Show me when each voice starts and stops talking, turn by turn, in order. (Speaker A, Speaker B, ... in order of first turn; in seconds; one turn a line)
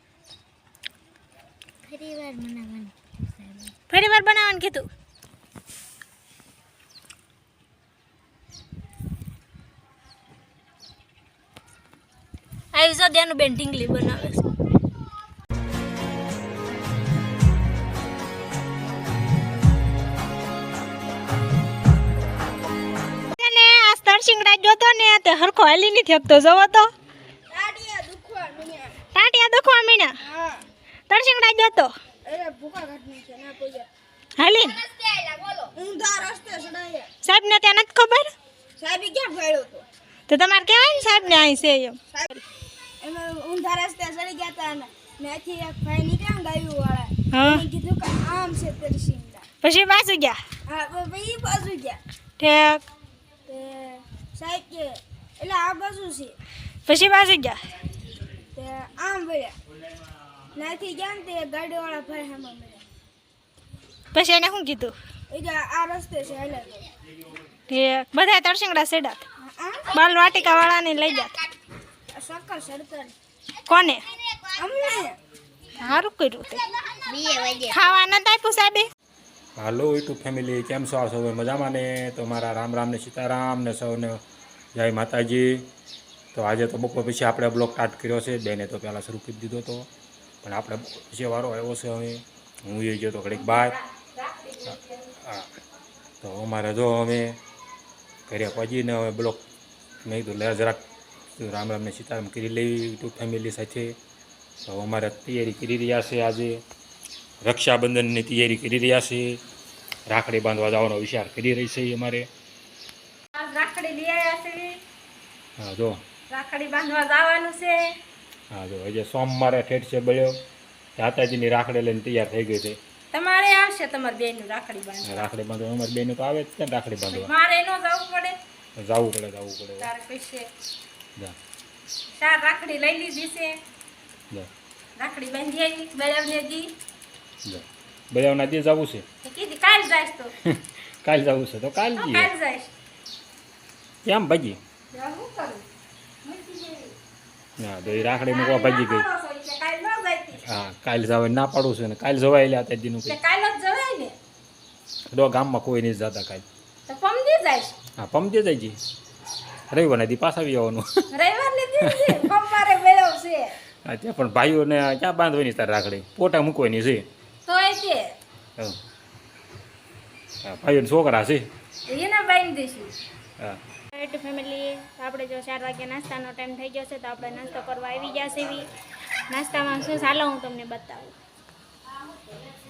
Speaker A: 1.8-3.7
Speaker B: 3.9-4.9
Speaker B: 12.7-14.4
Speaker B: 23.3-26.9
Speaker C: 27.5-28.9
Speaker B: 29.1-30.2
Speaker C: 30.2-30.6
Speaker B: 31.1-31.9
Speaker C: 32.2-33.9
Speaker B: 34.4-34.8
Speaker C: 35.6-37.1
Speaker B: 37.2-38.3
Speaker C: 38.8-39.8
Speaker B: 40.3-42.0
Speaker C: 43.0-49.5
Speaker B: 47.3-47.6
Speaker B: 49.6-50.4
Speaker C: 50.7-52.0
Speaker B: 52.4-52.8
Speaker C: 53.5-56.4
Speaker B: 56.9-57.6
Speaker C: 58.5-59.5
Speaker C: 60.5-62.8
Speaker B: 64.1-64.9
Speaker C: 65.3-66.9
Speaker B: 67.7-69.2
Speaker C: 69.4-69.9
Speaker B: 69.9-71.3
Speaker C: 72.1-73.1
Speaker B: 73.7-74.0
Speaker C: 74.5-75.2
Speaker B: 75.8-76.6
Speaker A: 76.9-77.8
Speaker B: 77.7-78.9
Speaker D: 79.5-84.2
Speaker D: 84.8-85.7
Speaker D: 86.3-89.9
Speaker D: 90.4-93.8
Speaker B: 93.4-94.8
Speaker D: 94.7-95.5
Speaker D: 96.2-97.4
Speaker D: 98.3-99.4
Speaker D: 100.0-100.8
Speaker D: 101.3-103.9
Speaker D: 104.6-106.6
Speaker D: 107.4-109.4
Speaker D: 110.1-112.3
Speaker B: 113.3-114.8
Speaker D: 115.6-116.0
Speaker B: 116.3-117.9
Speaker D: 118.5-120.3
Speaker D: 121.0-122.8
Speaker B: 123.1-125.3
Speaker D: 125.0-127.3
Speaker B: 127.1-128.3
Speaker D: 128.8-129.9
Speaker B: 129.8-130.5
Speaker B: 132.1-133.6
Speaker B: 135.0-136.7
Speaker D: 137.4-139.0
Speaker B: 139.2-140.3
Speaker D: 140.4-142.3
Speaker B: 141.9-142.7
Speaker D: 144.0-144.6
Speaker B: 144.9-145.6
Speaker B: 146.2-146.9
Speaker D: 147.6-149.1
Speaker B: 148.0-150.3
Speaker D: 150.4-153.2
Speaker B: 153.1-154.1
Speaker D: 155.1-156.4
Speaker B: 156.9-157.8
Speaker D: 158.0-158.8
Speaker D: 159.7-161.1
Speaker B: 161.1-163.6
Speaker D: 163.8-167.1
Speaker B: 167.5-168.1
Speaker D: 170.4-171.4
Speaker B: 171.9-172.9
Speaker B: 173.9-178.6
Speaker B: 179.3-181.1